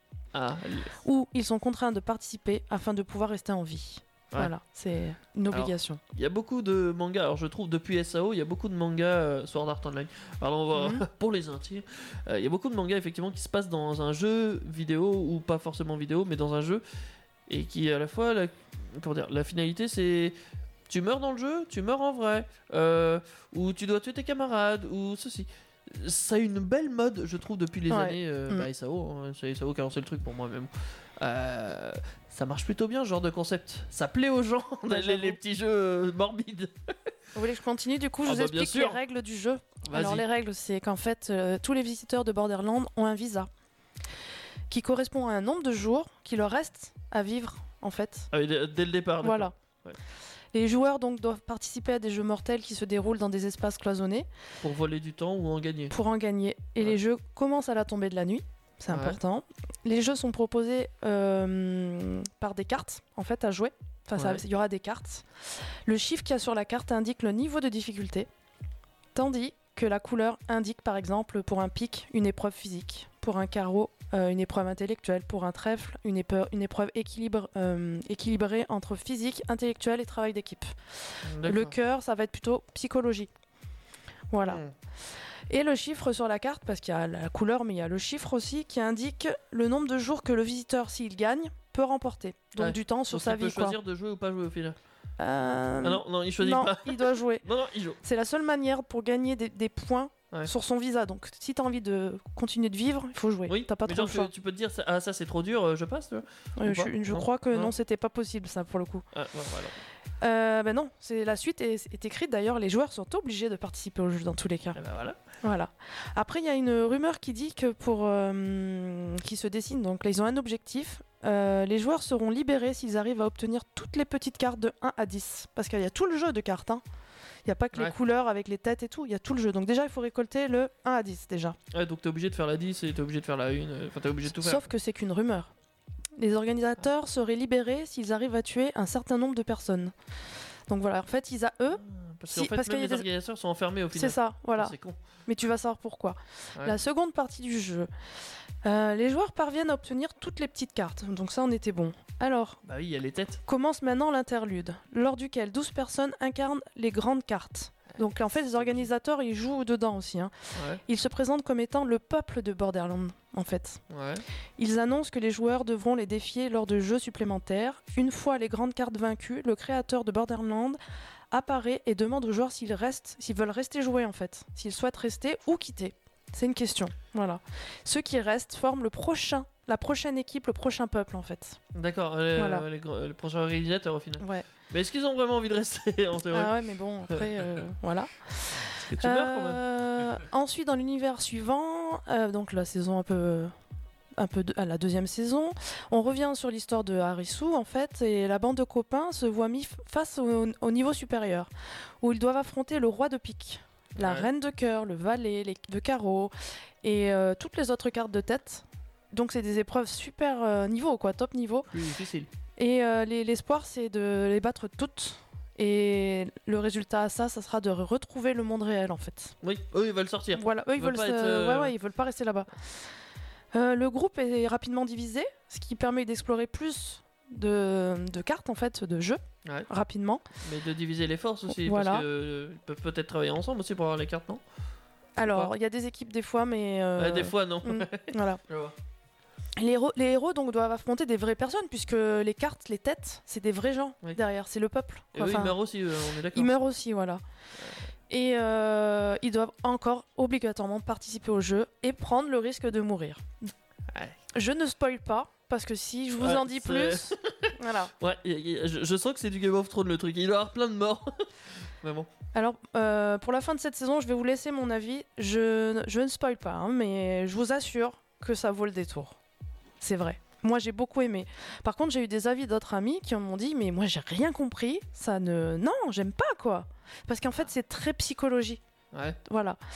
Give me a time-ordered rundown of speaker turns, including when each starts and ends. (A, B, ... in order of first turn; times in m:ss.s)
0:00.3-0:01.0 A
0:01.0-0:06.0 B
0:05.5-0:16.8 A
0:10.7-0:11.0 B
0:17.5-0:20.4 A
0:20.9-0:36.9 A
0:27.9-0:28.7 B
0:34.9-0:35.4 B
0:37.3-0:43.5 B
0:38.2-0:39.0 A
0:39.9-0:40.2 A
0:44.7-0:48.3 B
0:48.3-0:50.0 A
0:49.2-0:49.5 B
0:50.5-0:54.3 B
0:54.6-0:55.9 A
0:55.9-1:05.2 B
0:58.9-0:59.2 A
1:05.8-1:08.3 B
1:09.1-1:20.7 B
1:21.3-1:21.7 A
1:21.4-1:23.3 B
1:24.3-1:24.6 B
1:25.5-1:33.8 B
1:32.6-1:34.8 A
1:35.2-1:37.4 B
1:35.8-1:38.0 A
1:38.0-1:44.3 B
1:43.5-1:47.7 A
1:46.6-1:49.0 B
1:49.1-1:49.8 A
1:50.2-1:54.8 B
1:54.7-1:55.2 A
1:55.4-2:06.8 B
2:07.4-2:11.6 B
2:11.7-2:14.6 A
2:14.3-2:15.5 B
2:16.2-2:19.9 B
2:20.7-2:21.8 B
2:21.8-2:25.0 A
2:22.3-2:23.0 B
2:23.9-2:24.7 B
2:25.3-2:27.9 B
2:28.6-2:32.6 B
2:32.6-2:33.4 A
2:33.4-2:40.3 B
2:38.6-2:38.8 A
2:40.6-2:40.8 A
2:40.8-2:43.8 B
2:43.9-2:44.2 A
2:44.6-2:50.8 B
2:51.3-3:01.6 B
3:01.7-3:06.5 A
3:02.3-3:02.6 B
3:04.2-3:04.4 B
3:06.3-3:13.5 B
3:08.6-3:09.6 A
3:14.2-3:21.5 B
3:22.0-3:31.7 B
3:24.0-3:24.3 A
3:31.7-3:32.3 A
3:32.6-3:39.3 B
3:39.4-3:41.7 A
3:40.3-3:42.5 B
3:43.5-3:50.2 B
3:50.4-3:54.4 A
3:51.5-3:52.0 B
3:55.2-3:58.4 B
3:55.2-3:55.5 A
3:57.0-3:58.7 A
3:59.6-4:05.6 B
4:05.1-4:06.5 A
4:06.3-4:07.2 B
4:08.1-4:13.5 B
4:14.3-4:17.9 B
4:16.2-4:21.3 A
4:21.8-4:22.1 A
4:22.3-4:29.2 B
4:29.8-4:38.6 B
4:38.9-4:39.2 A
4:39.2-4:39.6 B